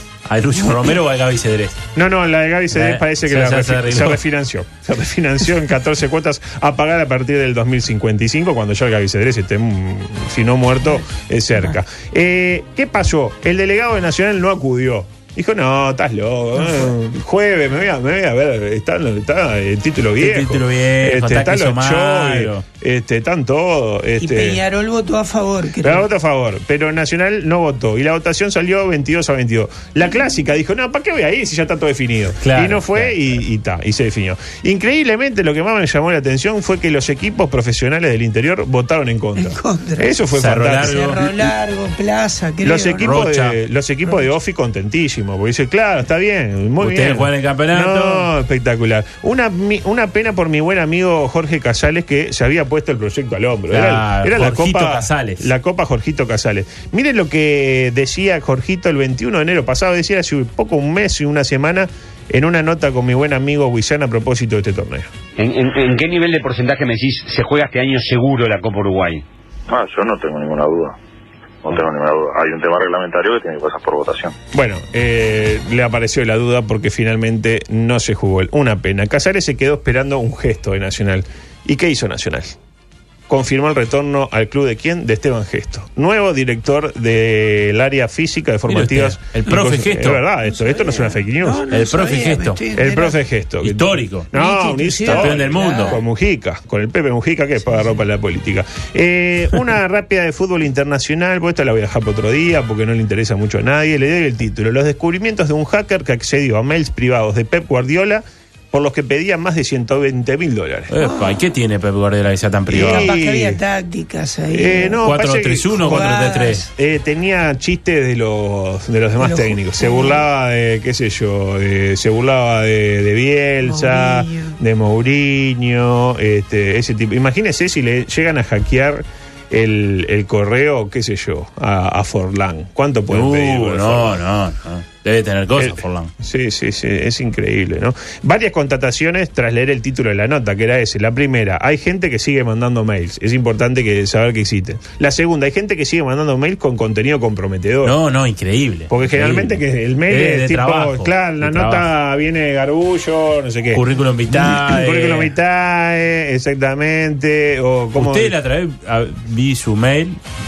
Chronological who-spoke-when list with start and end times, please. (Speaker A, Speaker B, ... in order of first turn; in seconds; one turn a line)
Speaker A: 0.2-1.8
Speaker B: 1.9-24.6
Speaker A: 2.7-4.2
Speaker A: 20.2-22.6
Speaker C: 24.2-26.1
Speaker B: 25.8-41.2
Speaker A: 32.4-33.1
Speaker C: 39.4-40.2
Speaker A: 40.3-41.3
Speaker C: 40.8-43.2
Speaker B: 42.6-65.1
Speaker A: 43.0-43.5
Speaker A: 46.8-48.3
Speaker A: 53.7-55.5
Speaker D: 65.4-69.2
Speaker E: 69.7-71.0
Speaker E: 71.6-74.3
Speaker B: 74.5-82.6
Speaker B: 83.3-91.6
Speaker A: 88.7-90.2
Speaker C: 90.4-93.2
Speaker A: 91.7-92.6
Speaker B: 92.7-110.9
Speaker A: 93.6-94.3
Speaker C: 94.3-96.0
Speaker A: 95.0-96.0
Speaker A: 110.9-113.1
Speaker C: 111.0-111.4
Speaker B: 112.7-113.6
Speaker C: 112.8-115.0
Speaker B: 114.5-116.1
Speaker A: 115.0-116.6
Speaker C: 115.8-116.7
Speaker B: 116.7-134.1
Speaker C: 119.2-120.2
Speaker C: 123.6-124.6
Speaker A: 133.1-136.1
Speaker B: 135.6-147.9
Speaker A: 147.8-151.9
Speaker B: 148.9-158.3
Speaker A: 153.7-155.3
Speaker A: 157.9-160.2